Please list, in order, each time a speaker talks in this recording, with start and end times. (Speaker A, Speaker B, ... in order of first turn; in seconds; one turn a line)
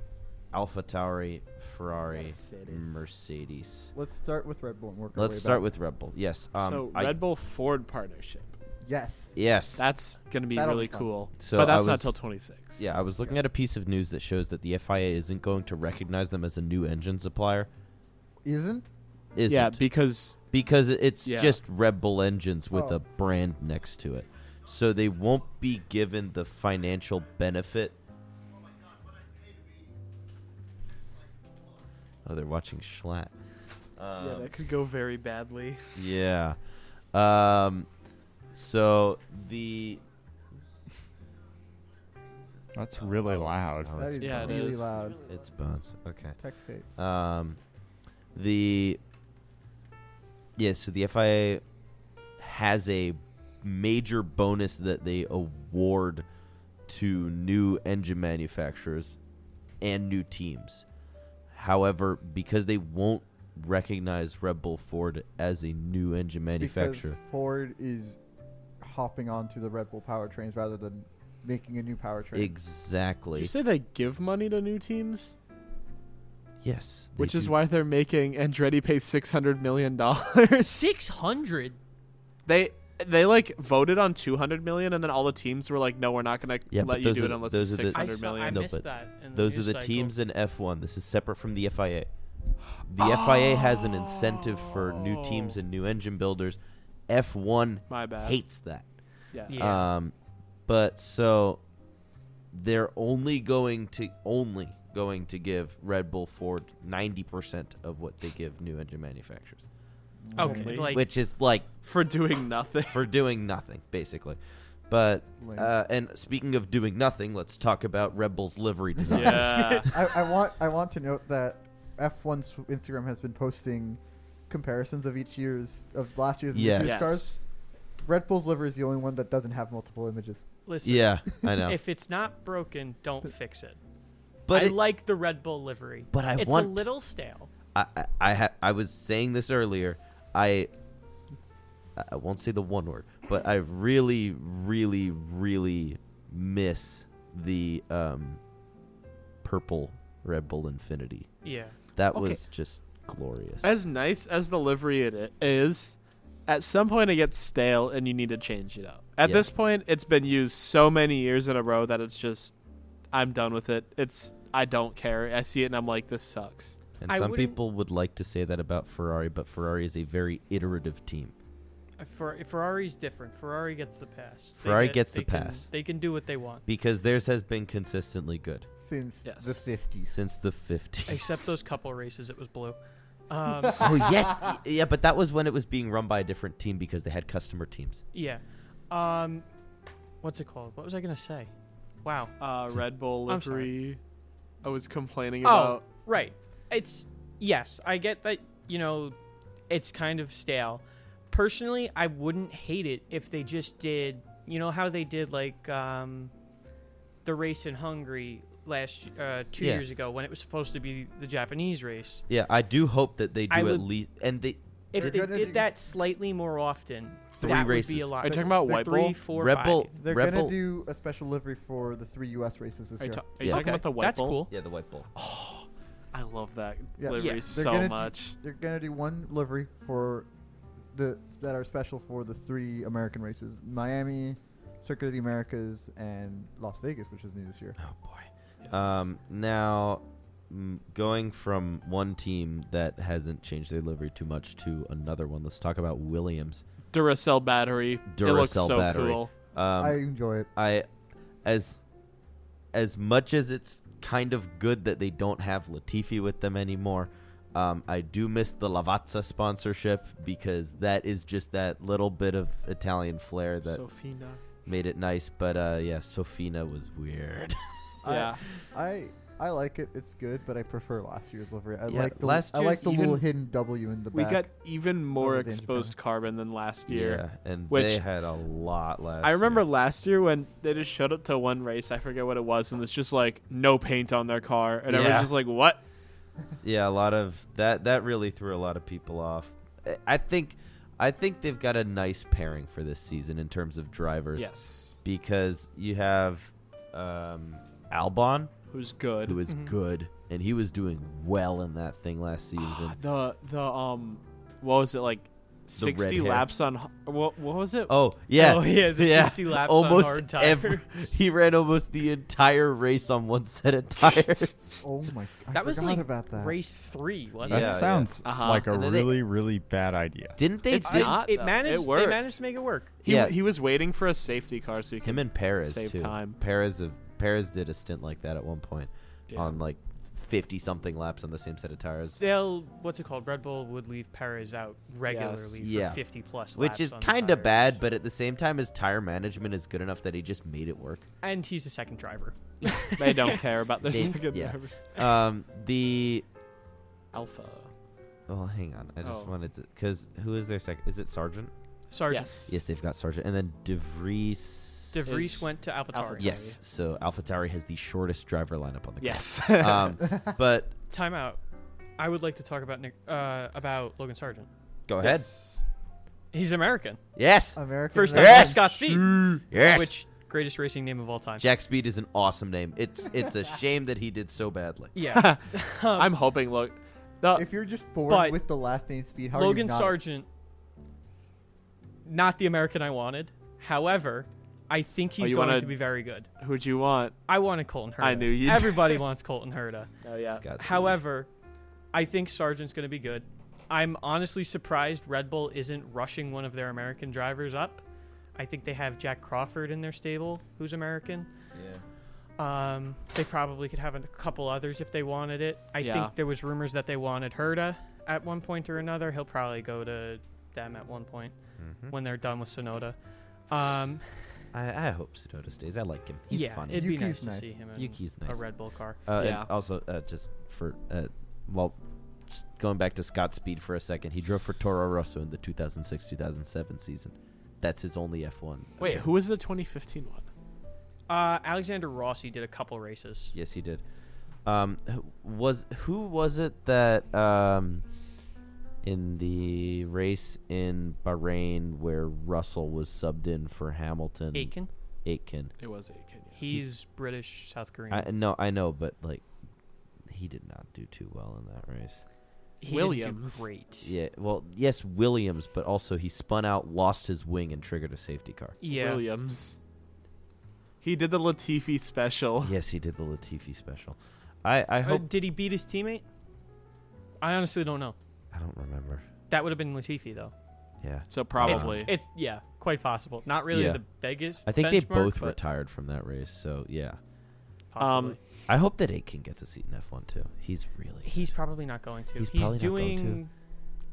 Speaker A: 0.5-3.9
Speaker B: 2.1-3.1
Speaker C: 3.9-5.6
Speaker A: 5.1-7.2
Speaker B: 6.6-8.5
Speaker C: 8.8-9.4
Speaker A: 9.3-9.8
Speaker B: 9.8-12.8
Speaker C: 10.5-11.1
Speaker A: 11.4-12.1
Speaker A: 12.8-17.7
Speaker C: 18.4-18.9
Speaker A: 19.3-19.8
Speaker B: 19.5-20.4
Speaker A: 20.4-28.0
Speaker B: 21.2-21.6
Speaker C: 22.7-23.0
Speaker A: 32.2-33.3
Speaker A: 34.0-34.5
Speaker B: 34.2-35.9
Speaker A: 35.9-37.9
Speaker A: 38.5-40.0
Speaker D: 42.7-44.1
Speaker A: 43.0-46.4
Speaker C: 43.9-45.2
Speaker B: 44.2-45.0
Speaker C: 46.4-46.9
Speaker A: 47.0-47.6
Speaker A: 48.3-49.0
Speaker A: 50.5-51.6
Speaker A: 52.4-56.2
Speaker A: 56.9-59.2
Speaker A: 59.8-60.8
Speaker A: 61.5-67.2
Speaker C: 66.6-68.2
Speaker C: 68.8-72.5
Speaker A: 72.3-73.5
Speaker B: 73.3-75.3
Speaker A: 76.6-77.6
Speaker B: 77.2-80.8
Speaker E: 80.5-81.8
Speaker B: 82.5-88.7
Speaker A: 86.7-92.1
Speaker E: 87.9-90.1
Speaker A: 92.8-100.1
Speaker B: 93.0-95.5
Speaker B: 97.9-98.4
Speaker B: 99.3-99.7
Speaker E: 99.5-99.9
Speaker A: 100.7-101.6
Speaker A: 102.5-109.7
Speaker C: 110.2-110.8
Speaker E: 110.3-111.1
Speaker B: 110.4-111.0
Speaker A: 110.8-111.7
Speaker B: 111.8-113.0
Speaker A: 112.9-119.7
Speaker C: 115.4-115.7
Speaker C: 119.0-127.4
Speaker B: 119.1-119.9
Speaker A: 126.5-127.2
Speaker B: 126.8-127.4
Speaker C: 128.0-130.5
Speaker E: 130.7-133.8
Speaker A: 130.8-131.8
Speaker A: 134.5-134.8
Speaker E: 134.5-137.5
Speaker A: 136.1-136.9
Speaker A: 137.7-140.7
Speaker A: 141.9-148.4
Speaker A: 149.4-151.3
Speaker E: 151.4-151.8
Speaker A: 151.9-153.7
Speaker B: 152.1-152.4
Speaker B: 153.6-162.5
Speaker A: 159.2-159.5
Speaker B: 163.1-166.8
Speaker A: 167.0-171.3
Speaker E: 167.1-167.6
Speaker E: 172.0-176.6
Speaker A: 174.6-175.7
Speaker A: 176.7-178.7
Speaker C: 178.8-180.2
Speaker B: 179.2-179.6
Speaker A: 180.1-181.5
Speaker E: 181.1-183.9
Speaker A: 183.8-188.0
Speaker E: 188.1-189.4
Speaker E: 190.2-191.5
Speaker E: 192.0-192.5
Speaker B: 192.4-194.0
Speaker E: 193.2-193.8
Speaker B: 194.6-195.8
Speaker E: 195.4-199.2
Speaker E: 199.7-206.3
Speaker E: 207.2-212.2
Speaker A: 209.6-209.8
Speaker A: 212.3-215.3
Speaker E: 213.5-213.9
Speaker E: 214.9-220.0
Speaker C: 214.9-215.7
Speaker A: 217.4-218.1
Speaker B: 218.2-219.2
Speaker A: 219.3-220.6
Speaker C: 220.0-223.3
Speaker B: 223.0-224.4
Speaker A: 223.4-223.7
Speaker E: 223.4-224.5
Speaker A: 224.5-225.1
Speaker B: 225.1-228.3
Speaker C: 227.0-230.3
Speaker E: 227.1-227.6
Speaker C: 230.9-237.8
Speaker A: 237.8-246.6
Speaker B: 238.6-238.9
Speaker B: 246.9-249.3
Speaker A: 248.1-250.9
Speaker C: 249.8-250.5
Speaker A: 251.4-251.8
Speaker A: 252.7-263.8
Speaker B: 263.6-264.4
Speaker A: 264.6-267.9
Speaker C: 268.0-275.9
Speaker B: 268.1-268.4
Speaker A: 271.9-273.2
Speaker B: 274.1-278.0
Speaker A: 276.9-279.6
Speaker B: 279.2-285.8
Speaker A: 284.9-285.3
Speaker A: 286.6-298.5
Speaker B: 294.4-294.9
Speaker B: 298.7-299.4
Speaker A: 299.2-303.0
Speaker E: 299.4-299.8
Speaker B: 302.6-307.9
Speaker A: 305.8-306.5
Speaker A: 307.9-314.8
Speaker E: 308.3-311.1
Speaker C: 314.8-316.6
Speaker E: 315.5-317.9
Speaker A: 317.4-319.2
Speaker D: 317.5-320.4
Speaker B: 318.2-318.7
Speaker A: 320.4-321.3
Speaker B: 320.7-322.4
Speaker E: 320.8-323.0
Speaker B: 323.0-326.4
Speaker A: 323.1-323.3
Speaker A: 325.0-332.2
Speaker B: 329.3-329.6
Speaker E: 332.2-337.8
Speaker B: 335.1-335.6
Speaker A: 335.6-336.0
Speaker A: 336.5-341.1
Speaker E: 341.2-344.2
Speaker B: 343.0-344.8
Speaker A: 343.9-346.2
Speaker B: 347.1-347.7
Speaker A: 348.3-351.5
Speaker B: 349.0-349.3
Speaker E: 351.9-352.6
Speaker B: 352.1-352.5
Speaker A: 352.5-355.0
Speaker E: 354.9-356.4
Speaker B: 355.0-356.6
Speaker A: 356.2-360.7
Speaker B: 359.0-360.0
Speaker E: 360.9-361.4
Speaker E: 362.0-364.5
Speaker A: 364.9-365.3
Speaker E: 365.0-365.6
Speaker E: 366.3-367.0
Speaker A: 367.1-367.6
Speaker C: 367.5-369.0
Speaker E: 367.9-371.4
Speaker A: 368.1-368.8
Speaker A: 369.4-369.9
Speaker A: 371.4-374.9
Speaker E: 374.9-376.1
Speaker B: 375.0-375.4
Speaker B: 375.9-377.4
Speaker C: 377.3-380.0
Speaker E: 378.1-378.4
Speaker E: 379.3-380.3
Speaker E: 382.0-386.3
Speaker B: 385.2-385.7
Speaker B: 386.4-387.1
Speaker E: 387.2-389.9
Speaker B: 388.0-389.0
Speaker B: 390.0-390.5
Speaker A: 390.3-391.0
Speaker E: 390.5-391.3
Speaker E: 391.9-397.8
Speaker E: 398.3-401.3
Speaker A: 401.5-401.8
Speaker E: 402.4-411.4
Speaker B: 405.8-406.1
Speaker A: 411.6-411.9
Speaker E: 411.9-413.0
Speaker E: 413.5-414.1
Speaker A: 414.5-416.9
Speaker E: 416.3-419.1
Speaker C: 416.7-417.6
Speaker A: 417.7-418.4
Speaker A: 419.1-429.1
Speaker B: 419.2-419.5
Speaker B: 428.8-430.3
Speaker E: 431.1-433.3
Speaker A: 433.3-433.8
Speaker A: 434.4-437.8
Speaker A: 438.8-445.5
Speaker E: 444.3-444.7
Speaker B: 445.6-446.6
Speaker E: 446.3-448.1
Speaker A: 447.9-449.2
Speaker A: 450.1-452.0
Speaker E: 452.6-453.9
Speaker B: 452.7-453.5
Speaker A: 453.8-458.6
Speaker E: 458.6-459.1
Speaker B: 458.6-459.6
Speaker B: 460.8-462.5
Speaker A: 462.4-465.1
Speaker E: 464.8-466.1
Speaker E: 467.2-467.9
Speaker A: 468.3-469.1
Speaker E: 469.3-470.3
Speaker A: 470.8-471.9
Speaker B: 471.1-471.9
Speaker E: 471.4-475.4
Speaker A: 473.5-473.8
Speaker A: 474.4-477.0
Speaker E: 477.7-478.2
Speaker B: 477.8-478.2
Speaker A: 478.5-481.3
Speaker E: 481.0-483.3
Speaker A: 482.1-483.2